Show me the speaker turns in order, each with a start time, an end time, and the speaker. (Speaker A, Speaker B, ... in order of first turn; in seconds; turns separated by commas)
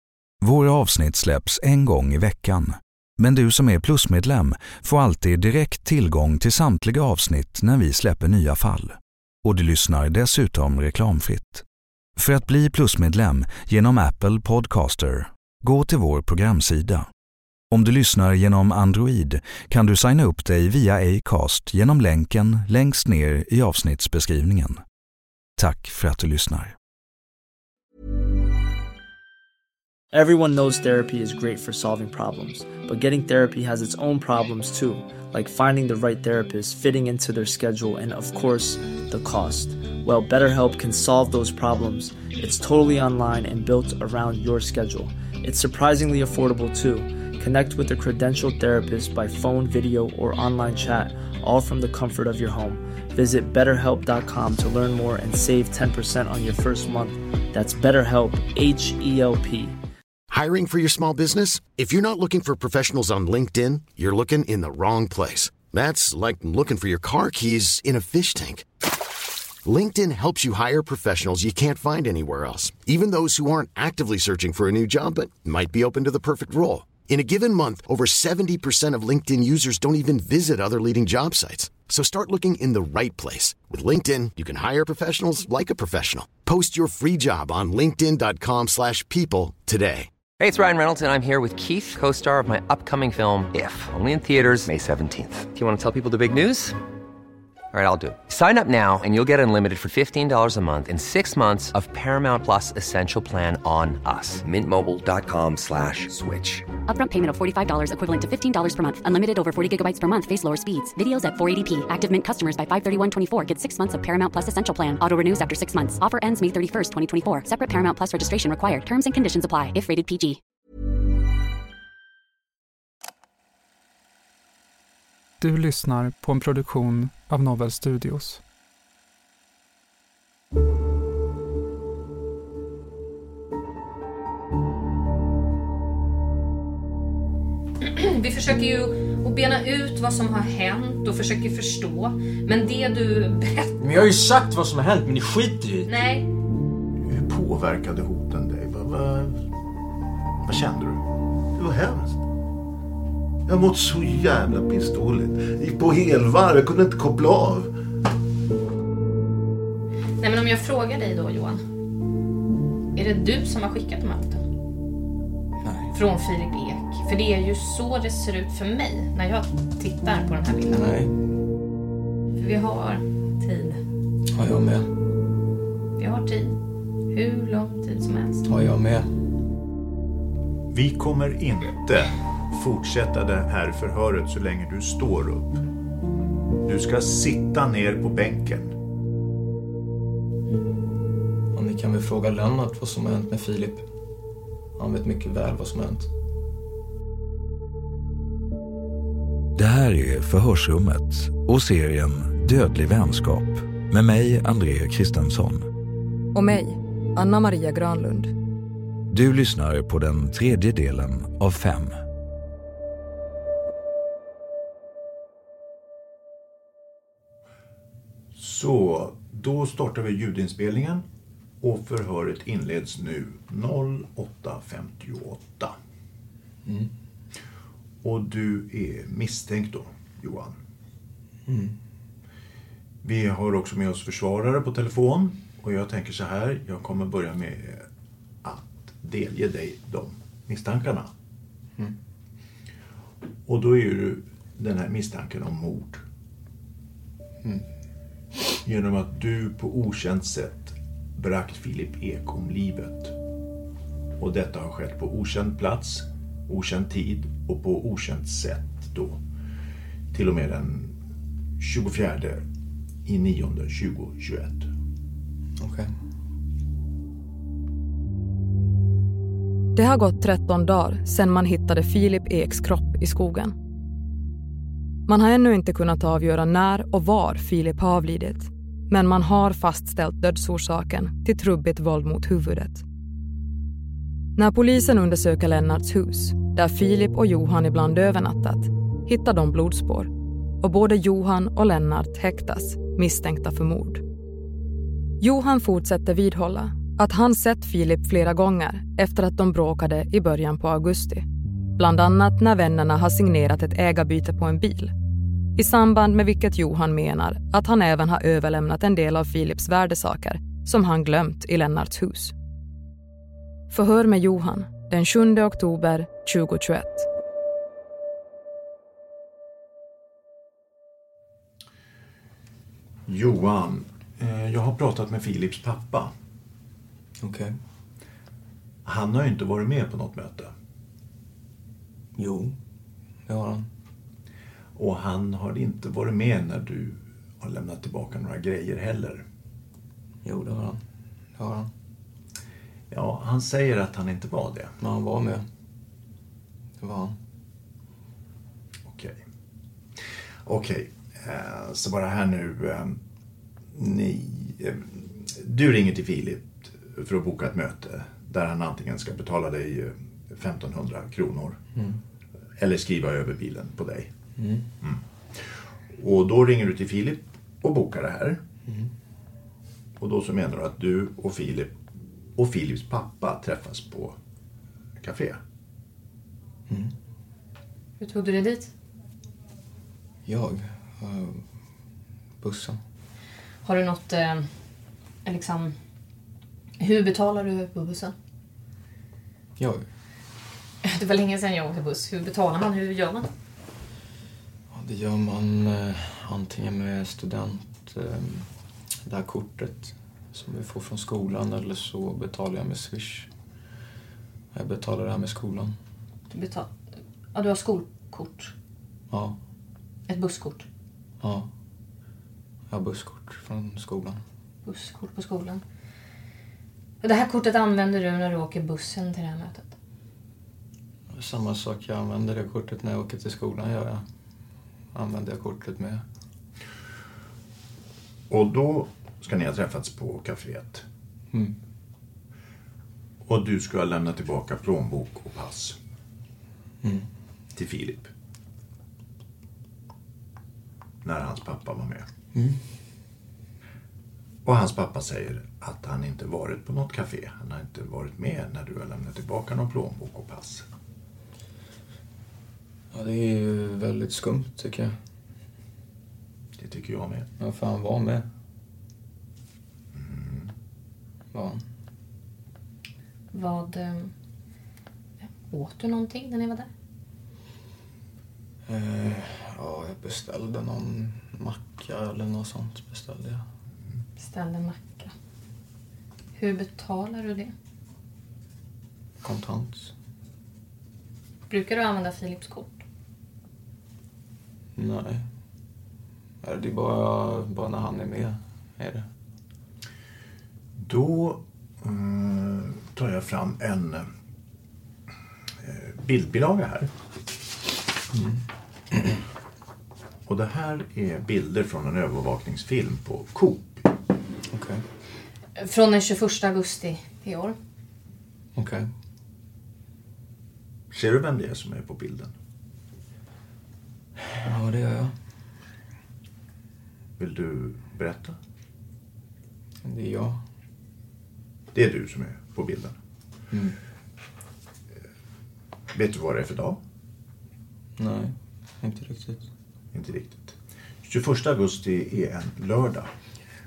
Speaker A: 0.4-11.6, Speaker A: 12.2-17.1, Speaker A: 17.7-24.8, Speaker A: 25.6-26.7, Speaker B: 30.1-59.8, Speaker C: 60.3-68.6, Speaker C: 69.6-90.1, Speaker D: 90.4-96.8, Speaker D: 97.7-106.7, Speaker E: 106.8-120.4, Speaker F: 125.4-128.4, Speaker G: 137.8-143.8, Speaker H: 143.8-145.9, Speaker G: 145.8-146.3, Speaker I: 147.0-149.4, Speaker I: 150.4-152.2, Speaker I: 153.5-157.7, Speaker G: 160.2-161.6, Speaker G: 162.9-164.4, Speaker H: 165.6-165.9, Speaker G: 165.9-170.8, Speaker H: 170.7-171.1, Speaker G: 172.4-173.8, Speaker H: 174.3-174.9, Speaker G: 176.0-176.6, Speaker G: 177.1-178.4, Speaker H: 178.4-179.1, Speaker I: 180.7-185.6, Speaker I: 186.6-188.7, Speaker H: 191.5-193.8, Speaker H: 194.8-196.1, Speaker A: 199.6-205.7, Speaker J: 206.3-208.3, Speaker A: 209.1-212.0, Speaker I: 218.3-221.0, Speaker I: 221.6-225.7, Speaker H: 226.7-226.9, Speaker I: 228.0-230.6, Speaker H: 231.4-231.8, Speaker I: 233.0-237.8, Speaker I: 238.4-241.1, Speaker I: 243.5-246.0, Speaker I: 248.6-253.1, Speaker I: 254.2-259.2, Speaker I: 260.1-260.9, Speaker I: 261.6-262.4, Speaker I: 263.1-264.7, Speaker H: 265.6-265.9, Speaker J: 269.7-273.5, Speaker J: 275.1-282.8, Speaker J: 284.4-290.1, Speaker J: 290.6-294.0, Speaker J: 295.2-301.2, Speaker J: 301.8-304.9, Speaker J: 305.6-312.3, Speaker J: 313.7-317.1, Speaker I: 323.1-326.1, Speaker H: 327.2-327.5, Speaker I: 328.8-330.5, Speaker H: 332.1-332.6, Speaker H: 333.2-333.6, Speaker I: 334.8-339.2, Speaker H: 340.2-340.8, Speaker H: 341.4-341.7, Speaker I: 342.9-344.7, Speaker H: 344.8-345.4, Speaker H: 346.8-347.1, Speaker I: 348.9-349.2, Speaker I: 350.4-353.0, Speaker I: 353.7-361.6, Speaker I: 362.6-364.1, Speaker H: 364.4-364.7, Speaker I: 364.8-368.4, Speaker I: 370.0-371.8, Speaker I: 372.4-374.1, Speaker I: 375.0-375.4, Speaker G: 378.0-378.7, Speaker H: 380.2-381.4, Speaker H: 382.4-382.8, Speaker G: 383.6-384.4, Speaker G: 385.2-385.8, Speaker G: 386.8-388.1, Speaker H: 389.6-389.8, Speaker G: 390.8-393.3, Speaker H: 394.7-398.5, Speaker H: 399.1-403.3, Speaker H: 404.5-405.7, Speaker G: 406.3-406.7, Speaker G: 407.3-408.5, Speaker H: 409.1-409.4, Speaker G: 410.1-410.7, Speaker H: 411.2-411.5, Speaker H: 412.7-414.2, Speaker G: 414.6-415.6, Speaker G: 417.0-419.7, Speaker H: 421.1-424.0, Speaker H: 424.9-426.0, Speaker I: 428.3-430.8, Speaker H: 431.3-431.6, Speaker I: 433.2-435.8, Speaker H: 436.8-437.1, Speaker I: 437.5-438.1, Speaker I: 441.0-442.1, Speaker H: 442.3-442.6, Speaker I: 444.4-450.6, Speaker H: 452.9-454.9, Speaker I: 456.6-457.3, Speaker H: 457.4-458.2, Speaker I: 459.9-460.5, Speaker H: 461.3-461.6, Speaker G: 463.3-464.1, Speaker G: 465.5-466.7, Speaker H: 468.7-473.4, Speaker G: 474.2-475.1, Speaker G: 476.4-477.5, Speaker H: 479.2-479.9, Speaker G: 481.5-482.8, Speaker H: 484.8-485.2, Speaker H: 486.4-489.0, Speaker I: 490.8-494.1, Speaker I: 495.6-496.9, Speaker H: 498.1-499.1, Speaker I: 500.3-503.9, Speaker H: 504.5-504.8, Speaker G: 505.6-507.6, Speaker H: 508.5-508.9, Speaker I: 510.9-512.3, Speaker H: 514.3-515.1, Speaker I: 517.2-518.4, Speaker H: 519.8-520.4, Speaker I: 521.7-523.0, Speaker H: 523.5-523.8, Speaker I: 525.9-526.8, Speaker H: 528.0-529.4, Speaker I: 529.9-533.1